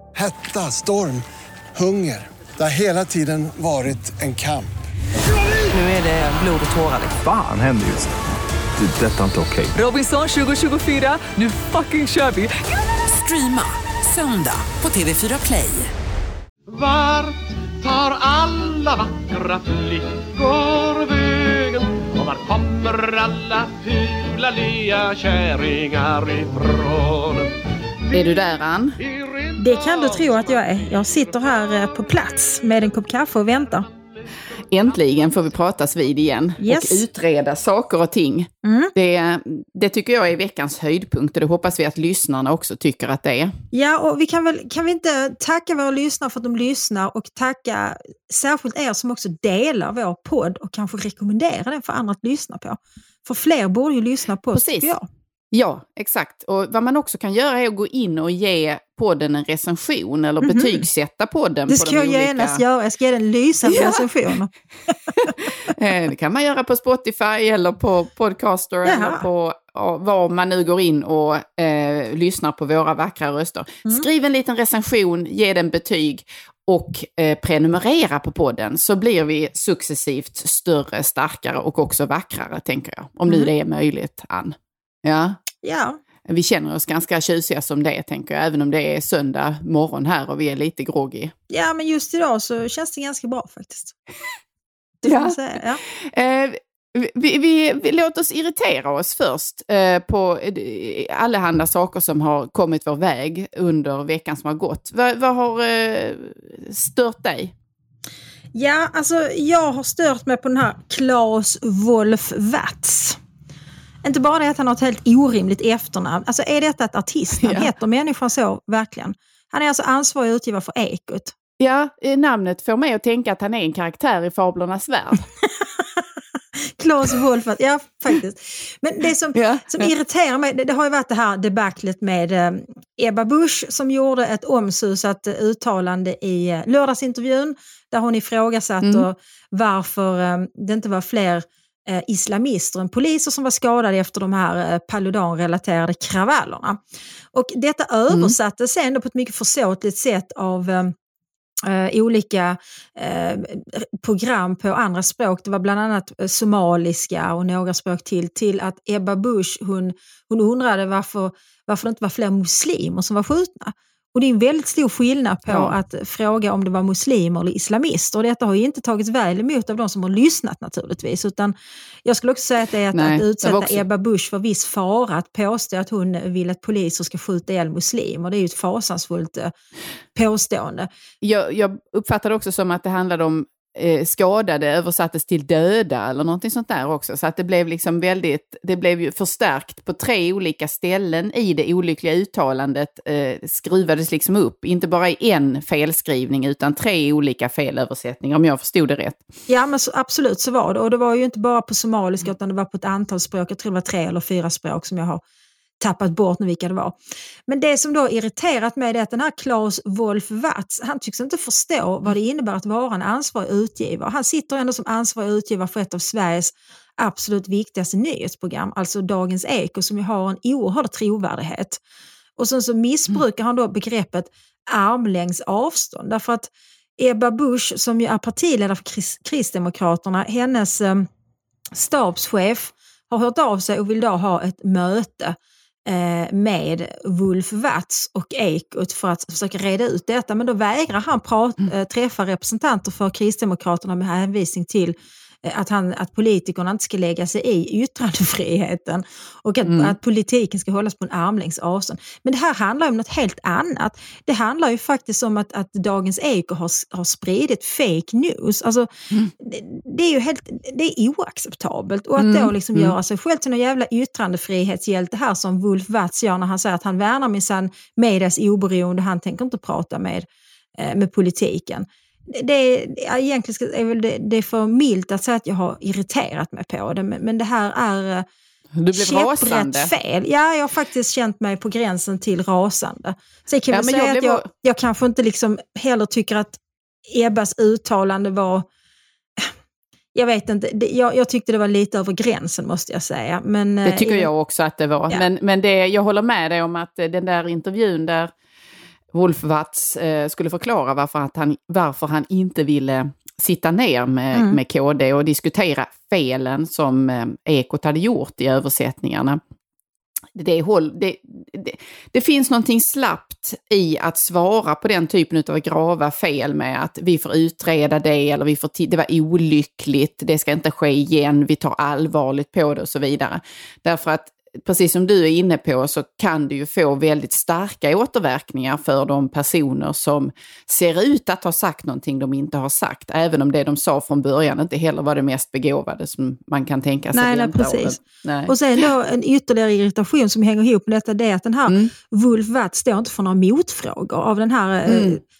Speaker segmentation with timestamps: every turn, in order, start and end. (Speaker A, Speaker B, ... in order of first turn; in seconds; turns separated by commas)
Speaker A: 0.1-1.2, Speaker A: 1.8-4.7, Speaker B: 5.7-7.2, Speaker C: 7.2-8.2, Speaker C: 8.8-9.8, Speaker B: 9.8-12.5, Speaker B: 13.1-15.9, Speaker D: 16.7-27.6, Speaker D: 28.1-32.0, Speaker E: 28.1-29.0, Speaker F: 29.6-33.9, Speaker D: 33.6-35.6, Speaker E: 34.7-43.5, Speaker F: 36.6-37.0, Speaker F: 38.6-38.9, Speaker F: 43.7-55.1, Speaker E: 54.5-54.9, Speaker E: 55.5-62.6, Speaker F: 60.4-60.8, Speaker F: 61.7-64.5, Speaker E: 63.7-64.1, Speaker E: 65.2-85.4, Speaker F: 68.8-69.2, Speaker F: 85.6-86.0, Speaker E: 86.3-91.3, Speaker F: 91.5-94.0, Speaker F: 95.0-95.8, Speaker E: 95.1-107.5, Speaker F: 108.5-113.2, Speaker F: 114.0-121.3, Speaker E: 117.4-117.7, Speaker E: 121.6-125.2, Speaker F: 126.6-146.8, Speaker E: 129.3-129.9, Speaker E: 138.8-139.1, Speaker F: 147.3-150.9, Speaker E: 148.1-148.4, Speaker F: 151.7-179.5, Speaker E: 165.5-165.7, Speaker E: 172.9-173.8, Speaker F: 180.2-180.9, Speaker E: 181.2-199.2, Speaker F: 199.5-205.2, Speaker F: 205.8-207.0, Speaker F: 207.5-221.8, Speaker F: 222.4-231.1, Speaker F: 231.8-258.9, Speaker E: 249.7-249.9, Speaker F: 259.4-270.3, Speaker E: 262.2-263.0, Speaker F: 270.8-278.3, Speaker E: 278.8-279.9, Speaker F: 278.9-288.7, Speaker E: 283.7-284.5, Speaker F: 290.1-294.3, Speaker E: 293.9-298.3, Speaker E: 299.1-309.4, Speaker F: 304.3-304.6, Speaker E: 310.4-338.6, Speaker F: 337.1-345.2, Speaker E: 341.7-341.9, Speaker E: 344.9-345.2